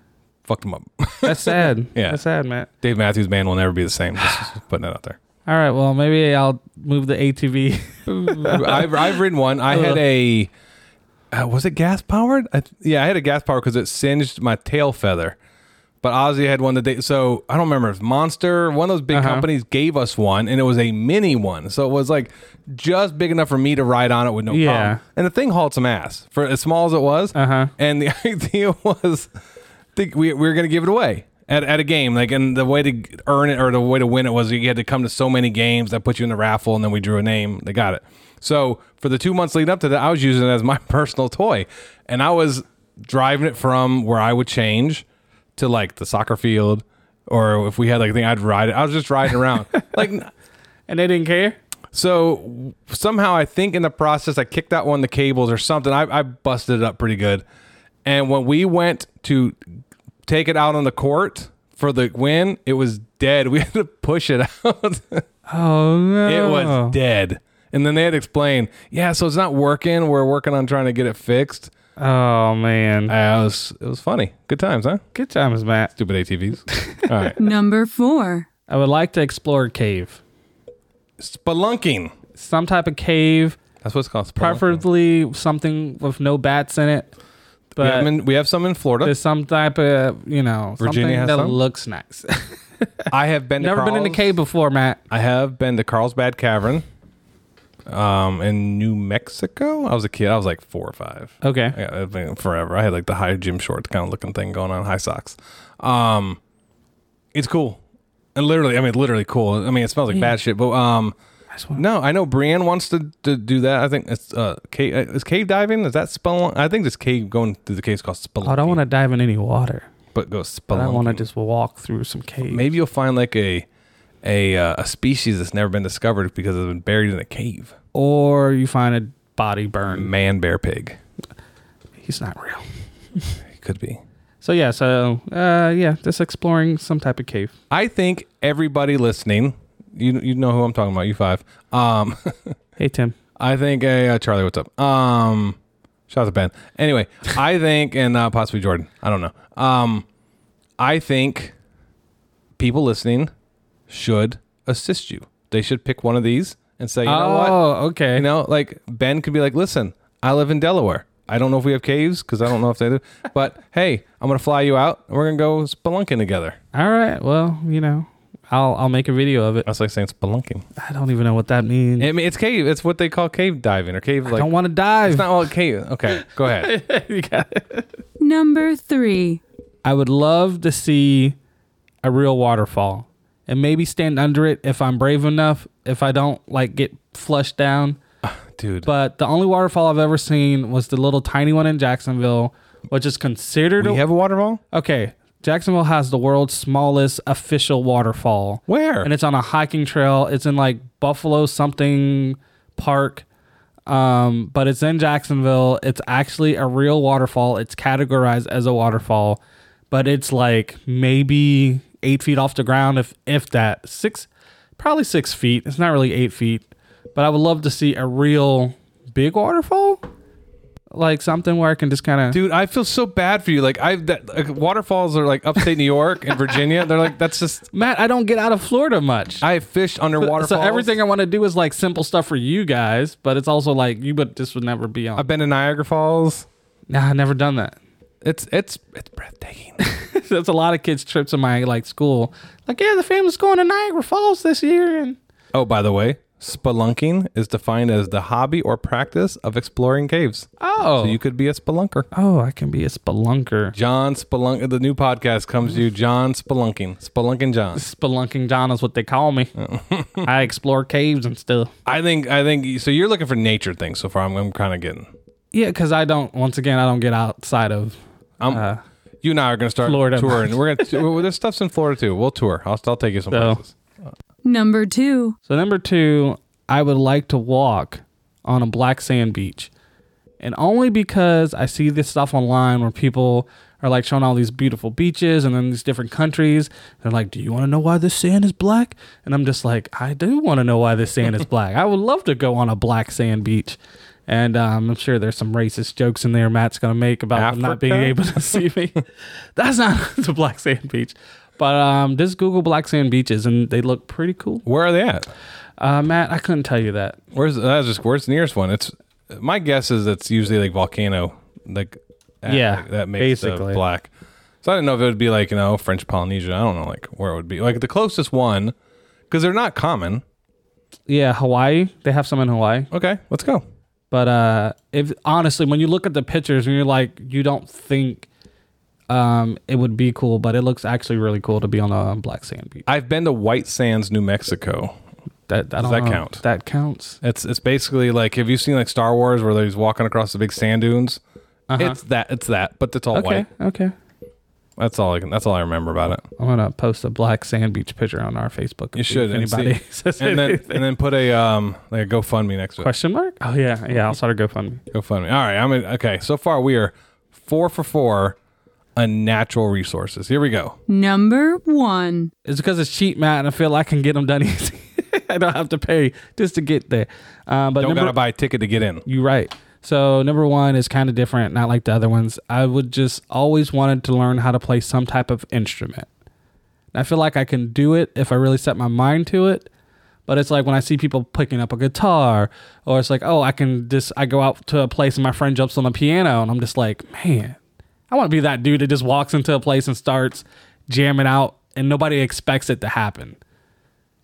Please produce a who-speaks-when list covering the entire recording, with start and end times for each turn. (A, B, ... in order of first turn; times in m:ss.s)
0:00.5-0:02.2 A
0:01.2-0:02.7 B
0:02.8-0:05.2 A
0:05.5-0:10.0 B
0:08.1-0:10.5 A
0:11.3-0:15.4 A
0:16.0-0:29.3 A
0:19.1-0:19.5 B
0:24.5-0:25.0 B
0:27.3-0:27.7 B
0:29.9-0:45.0 A
0:45.6-0:50.3 A
0:50.9-0:51.6 B
0:51.9-0:57.4 A
0:58.0-0:59.6 A
1:00.2-1:05.2 A
1:05.5-1:07.0 B
1:06.2-1:11.7 A
1:12.0-1:13.1 B
1:13.1-1:15.0 A
1:15.1-1:15.9 B
1:16.0-1:17.4 A
1:16.7-1:17.3 B
1:17.4-1:18.5 C
1:18.7-1:20.2 B
1:21.2-1:22.1 A
1:22.4-1:23.6 B
1:23.8-1:24.8 A
1:24.4-1:27.1 B
1:27.8-1:28.1 B
1:27.8-1:29.1 A
1:29.0-1:33.1 B
1:30.8-1:31.6 A
1:33.1-1:34.3 A
1:33.6-1:35.0 B
1:35.1-1:36.8 A
1:37.9-1:46.4 A
1:41.4-1:41.8 B
1:47.3-1:47.8 A
1:48.3-1:51.1 A
1:51.5-1:51.8 B
1:51.7-1:58.8 A
1:58.4-1:59.9 B
2:00.1-2:01.2 A
2:00.7-2:02.7 B
2:02.5-2:03.6 A
2:04.2-2:07.7 A
2:07.9-2:10.1 B
2:09.9-2:11.0 A
2:12.0-2:12.6 B
2:13.5-2:14.0 A
2:14.4-2:17.5 B
2:17.7-2:22.5 A
2:22.8-2:23.1 B
2:23.4-2:25.6 A
2:26.1-2:30.0 A
2:30.8-2:31.5 A
2:32.6-2:33.3 A
2:33.9-2:37.6 A
2:37.0-2:38.3 B
2:38.1-2:46.6 A
2:46.7-2:49.6 B
2:49.6-2:50.6 A
2:50.8-2:52.1 B
2:52.0-2:54.5 A
2:54.3-2:55.5 B
2:55.0-2:56.7 A
2:56.2-2:57.9 B
2:58.2-2:59.4 C
2:59.8-3:01.4 B
3:02.0-3:08.0 B
3:08.2-3:08.9 A
3:08.8-3:14.0 B
3:13.8-3:14.6 A
3:14.7-3:23.2 B
3:18.7-3:19.1 A
3:23.9-3:29.4 B
3:29.9-3:34.3 B
3:34.8-3:36.6 B
3:37.2-3:40.0 B
3:40.9-3:42.4 B
3:42.3-3:47.7 A
3:47.7-3:49.4 B
3:49.4-3:51.0 A
3:50.2-3:55.2 B
3:55.2-3:56.4 A
3:56.9-3:57.8 B
3:58.2-3:59.8 A
3:59.8-4:05.2 B
4:05.5-4:12.1 A
4:10.6-4:11.2 B
4:12.1-4:13.8 B
4:13.7-4:17.8 A
4:17.7-4:19.5 B
4:19.6-4:20.3 A
4:20.2-4:21.7 B
4:21.8-4:25.1 A
4:25.5-4:28.0 B
4:28.5-4:28.8 B
4:29.2-4:33.7 A
4:29.8-4:31.0 B
4:33.3-4:33.6 B
4:34.4-4:35.4 C
4:35.5-4:39.7 B
4:40.4-4:59.0 B
4:57.3-4:58.6 A
4:59.6-5:04.6 B
5:04.6-5:05.3 A
5:05.8-5:07.2 B
5:07.3-5:14.1 A
5:12.5-5:13.8 B
5:14.6-5:18.7 A
5:19.3-5:20.2 A
5:21.1-5:22.9 B
5:22.9-5:23.6 A
5:24.1-5:28.2 B
5:29.1-5:32.8 B
5:32.8-5:34.9 A
5:35.5-5:37.2 B
5:35.8-5:36.4 A
5:37.2-5:41.2 A
5:41.7-5:42.0 B
5:41.8-5:43.4 A
5:43.1-5:43.9 B
5:44.8-5:46.2 A
5:46.4-5:50.8 B
5:48.9-5:52.9 A
5:52.8-5:54.8 B
5:54.9-5:58.4 A
5:59.0-6:00.8 A
6:00.9-6:02.3 C
6:02.4-6:08.2 B
6:07.8-6:09.0 A
6:09.0-6:16.1 B
6:16.9-6:19.7 B
6:20.3-6:27.6 B
6:28.1-6:33.4 B